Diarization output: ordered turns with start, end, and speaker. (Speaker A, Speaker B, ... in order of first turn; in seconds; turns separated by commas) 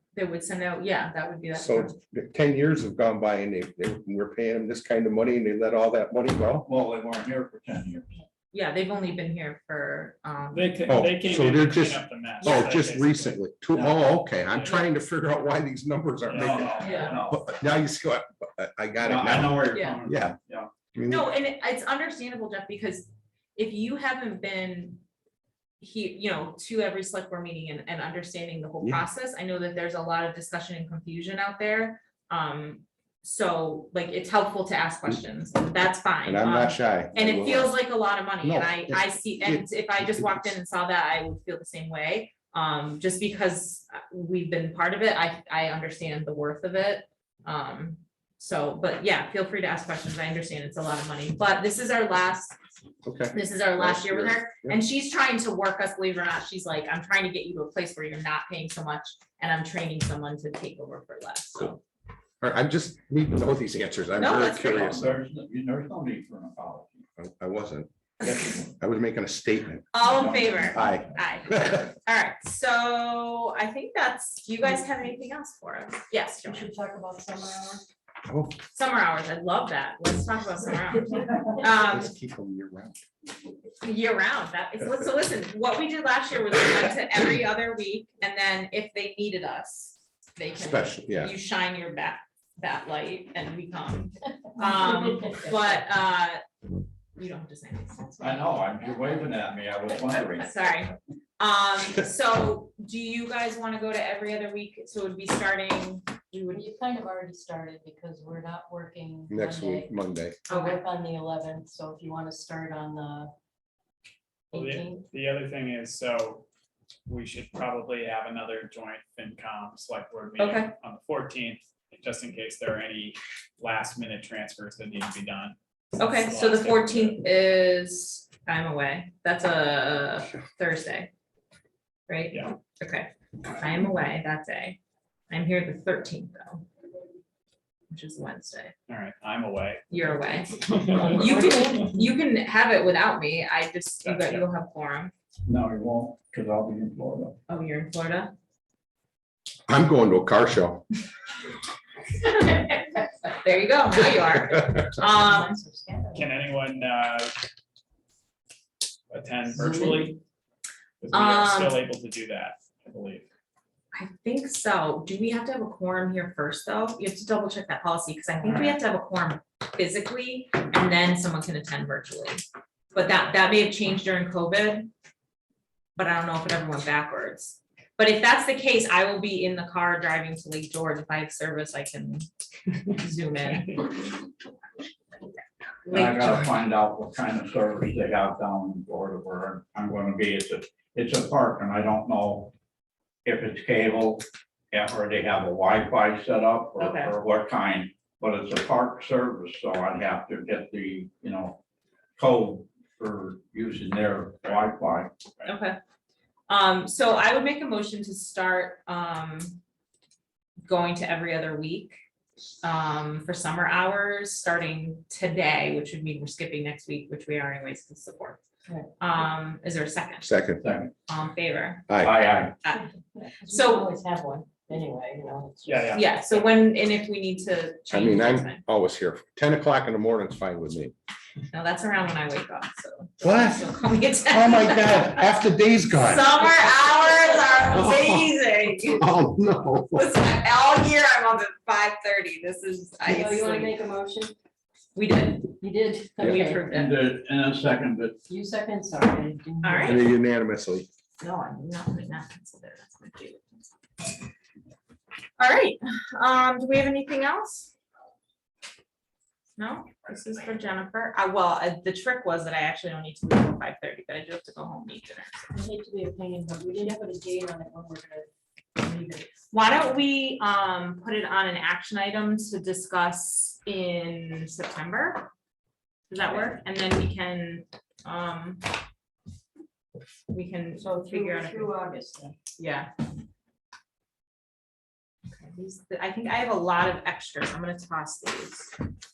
Speaker A: 0.1-1.9, Speaker B: 1.5-6.7, Speaker C: 6.6-8.2, Speaker A: 8.5-11.0, Speaker D: 10.5-13.5, Speaker B: 10.9-20.4, Speaker A: 12.4-12.8, Speaker C: 13.7-14.1, Speaker D: 16.2-17.4, Speaker C: 16.3-17.5, Speaker A: 16.8-17.1, Speaker C: 19.0-20.7, Speaker A: 19.7-20.0, Speaker B: 20.9-21.3, Speaker A: 21.1-25.0, Speaker A: 25.8-52.6, Speaker B: 36.2-37.8, Speaker B: 38.4-40.5, Speaker B: 53.0-54.8, Speaker A: 53.3-61.8, Speaker B: 62.4-65.1, Speaker A: 64.2-65.0, Speaker C: 64.7-67.1, Speaker B: 67.2-69.9, Speaker A: 69.9-76.7, Speaker C: 70.0-71.9, Speaker B: 70.7-71.9, Speaker E: 76.4-77.8, Speaker B: 78.3-78.6, Speaker A: 78.7-82.1, Speaker B: 81.8-83.0, Speaker A: 83.8-96.4, Speaker B: 90.6-91.3, Speaker E: 94.6-95.8, Speaker A: 97.2-98.6, Speaker C: 98.2-100.8, Speaker A: 100.3-106.6, Speaker E: 106.5-109.9, Speaker B: 109.3-110.4, Speaker A: 110.5-110.8, Speaker E: 110.5-113.3, Speaker E: 114.5-115.0, Speaker D: 114.5-116.5, Speaker D: 117.1-127.2, Speaker A: 120.4-120.7, Speaker A: 126.0-131.1, Speaker A: 132.1-134.8, Speaker A: 135.3-136.7, Speaker A: 137.9-138.7, Speaker D: 138.9-139.8, Speaker A: 139.9-145.1, Speaker D: 140.6-141.2, Speaker E: 140.9-141.9, Speaker D: 144.0-144.5, Speaker C: 145.5-147.4, Speaker A: 147.5-148.3, Speaker B: 149.7-150.8, Speaker A: 152.2-155.6, Speaker E: 155.1-156.3, Speaker D: 156.1-157.3, Speaker D: 159.1-160.2, Speaker E: 159.5-160.2, Speaker D: 161.0-163.2, Speaker A: 161.1-161.8, Speaker A: 163.9-172.4, Speaker E: 168.4-168.8, Speaker A: 172.9-174.9, Speaker A: 176.0-184.1, Speaker C: 185.9-192.5, Speaker A: 185.9-186.5, Speaker C: 193.2-201.6, Speaker A: 196.8-197.1, Speaker C: 202.2-205.1, Speaker A: 205.4-205.8, Speaker A: 206.5-209.6, Speaker A: 210.7-212.0, Speaker A: 212.6-218.4, Speaker A: 219.0-220.3, Speaker B: 220.2-220.6, Speaker C: 220.6-220.9, Speaker A: 221.1-222.1, Speaker B: 221.9-222.2, Speaker C: 222.0-222.6, Speaker A: 222.6-222.9, Speaker E: 223.2-226.0, Speaker A: 223.5-223.9, Speaker D: 225.7-226.1, Speaker A: 225.9-228.6, Speaker B: 227.9-230.9, Speaker A: 231.5-235.3, Speaker B: 233.2-233.7, Speaker B: 234.2-236.4, Speaker A: 235.9-239.1, Speaker B: 237.7-238.3, Speaker B: 238.9-240.1, Speaker A: 239.9-243.7, Speaker E: 243.1-244.3, Speaker A: 245.0-245.5, Speaker E: 245.6-246.7, Speaker B: 246.2-246.4, Speaker A: 246.2-247.1, Speaker C: 246.7-248.2, Speaker E: 248.3-250.1, Speaker A: 249.6-250.0, Speaker B: 249.8-250.9, Speaker A: 251.2-253.7, Speaker A: 255.4-257.7, Speaker A: 259.6-265.5, Speaker E: 265.5-269.4, Speaker A: 269.5-275.3, Speaker A: 276.1-278.6, Speaker A: 280.3-281.8, Speaker E: 280.8-282.5, Speaker A: 282.6-282.9, Speaker A: 285.3-288.7